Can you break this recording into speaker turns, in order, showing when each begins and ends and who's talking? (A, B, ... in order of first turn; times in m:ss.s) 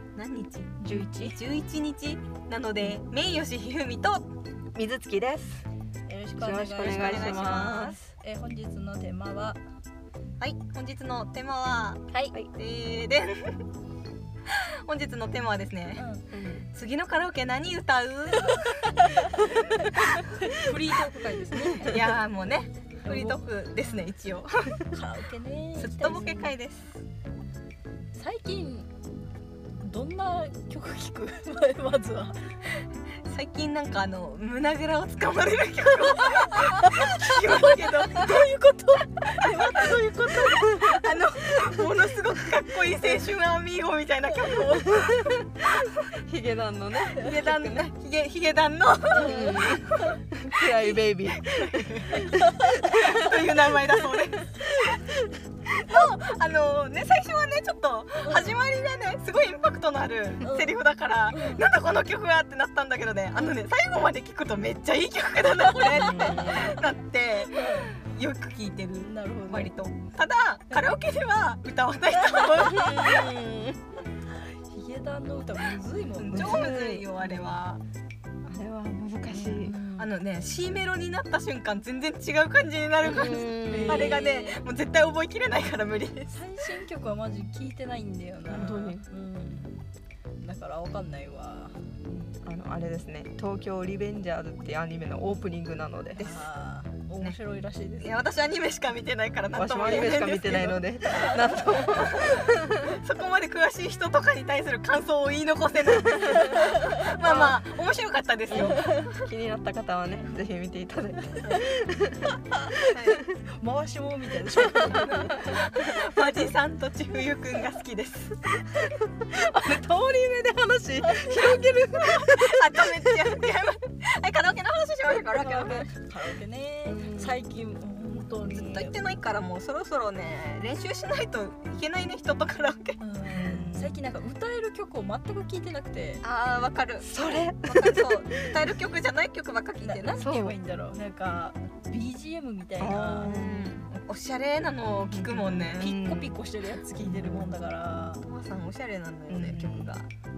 0:00.2-0:04.3 A
0:00.8-0:01.4 B
0:00.9-0:01.2 C
0:04.8-0:05.7 C
0:06.1-0:09.6 B
0:06.4-0:08.0 C
0:06.8-0:08.0 A
0:10.4-0:13.6 A
0:14.5-0:16.1 A
0:16.0-0:16.2 B
0:16.3-0:16.7 C
0:16.7-0:19.0 A
0:18.5-0:22.1 B
0:20.1-0:21.2 A
0:21.8-0:24.9 A
0:23.0-0:23.4 B
0:24.9-0:26.3 B
0:25.8-0:26.9 A
0:26.1-0:26.5 C
0:28.1-0:28.9 B
0:29.8-0:32.5 B
0:33.3-0:38.5 A
0:36.5-0:41.5 B
0:39.3-0:46.1 A
0:44.9-0:45.3 C
0:46.1-0:47.8 C
0:47.1-0:49.8 A
0:49.1-0:53.1 C
0:49.2-0:50.2 B
0:50.6-0:55.0 A
0:52.2-0:53.3 B
0:55.7-1:13.4 A
0:58.2-0:58.6 B
1:00.4-1:00.7 B
1:01.3-1:01.6 B
1:05.6-1:06.8 B
1:05.9-1:06.8 C
1:07.5-1:08.0 B
1:09.0-1:09.7 B
1:12.2-1:13.0 B
1:12.6-1:13.8 C
1:14.7-1:16.8 B
1:16.2-1:17.8 A
1:16.3-1:17.5 C
1:18.5-1:19.8 C
1:19.4-1:26.3 A
1:19.4-1:20.1 B
1:23.0-1:24.2 C
1:23.6-1:24.6 B
1:26.3-1:29.8 B
1:28.5-1:29.0 C
1:30.4-1:31.8 B
1:32.3-1:36.3 C
1:36.2-1:38.1 B
1:38.0-1:48.9 A
1:39.5-1:43.0 C
1:41.1-1:42.0 B
1:46.1-1:46.4 C
1:46.2-1:47.6 B
1:48.5-1:53.4 C
1:48.6-1:49.1 B
1:52.9-1:53.2 A
1:53.6-1:55.8 B
1:54.7-1:55.0 C
1:54.9-1:58.7 A
1:58.7-2:03.4 C
2:01.0-2:01.6 B
2:02.0-2:05.9 A
2:05.1-2:09.0 B
2:06.9-2:07.4 C
2:08.5-2:13.0 A
2:13.0-2:16.2 B
2:13.3-2:14.0 C
2:16.2-2:20.4 A
2:17.0-2:18.3 C
2:19.8-2:23.3 B
2:20.2-2:20.6 C
2:22.8-2:23.7 C
2:23.2-2:25.9 A
2:25.0-2:26.4 C
2:25.8-2:28.2 B
2:27.0-2:27.6 C
2:28.2-2:30.1 A
2:29.3-2:30.0 C